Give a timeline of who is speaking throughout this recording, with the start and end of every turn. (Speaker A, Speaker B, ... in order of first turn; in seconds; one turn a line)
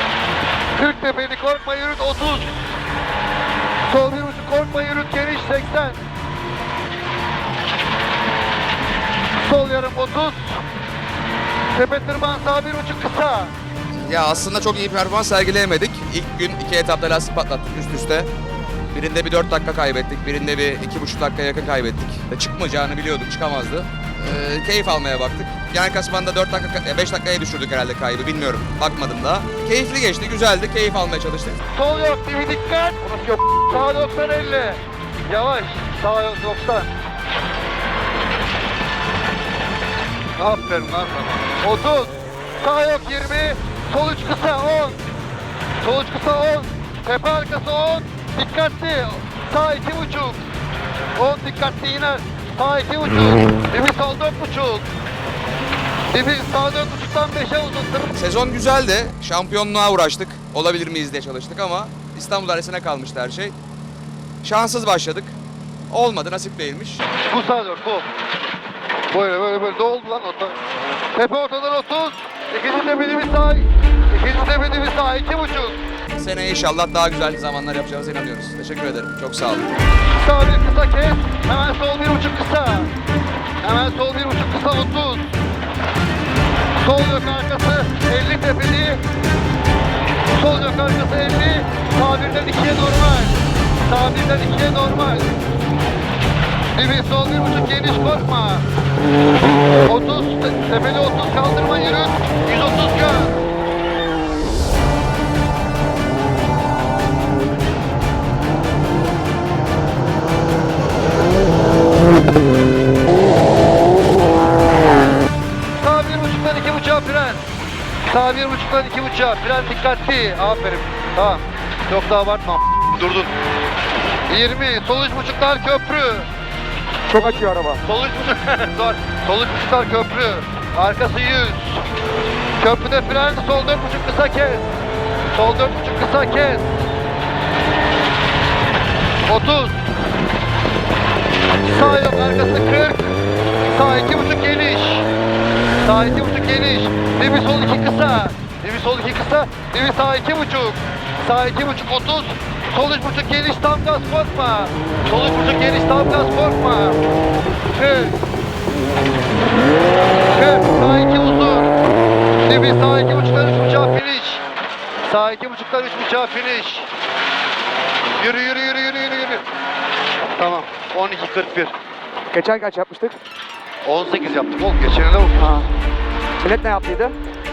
Speaker A: 0.7-2.5
Speaker A: 3.9-6.0
Speaker A: 9.4-10.6
Speaker A: 11.7-13.5
Speaker B: 14.0-18.3
Speaker B: 18.9-31.6
Speaker A: 31.7-36.9
Speaker A: 40.4-45.0
Speaker A: 45.8-50.4
Speaker A: 51.1-54.9
Speaker A: 56.1-58.1
Speaker B: 58.1-63.5
Speaker B: 64.4-65.3
Speaker B: 65.9-67.0
Speaker A: 67.3-68.1
Speaker A: 69.1-70.6
Speaker A: 71.1-75.8
Speaker B: 76.2-79.7
Speaker A: 80.1-82.9
Speaker A: 83.6-85.3
Speaker A: 86.8-89.0
Speaker A: 90.3-95.4
Speaker A: 96.7-98.6
Speaker A: 99.8-103.4
Speaker A: 115.8-117.4
Speaker A: 118.1-123.3
Speaker A: 124.3-126.3
Speaker A: 127.1-131.8
Speaker C: 127.2-127.8
Speaker A: 132.6-134.7
Speaker A: 135.3-136.7
Speaker A: 139.3-139.8
Speaker A: 141.6-145.1
Speaker A: 145.8-157.0
Speaker A: 157.7-158.2
Speaker A: 160.3-161.7
Speaker A: 162.4-164.4
Speaker A: 165.0-166.9
Speaker A: 168.2-169.4
Speaker A: 170.3-171.7
Speaker C: 172.3-173.2
Speaker A: 173.8-175.5
Speaker C: 176.4-177.1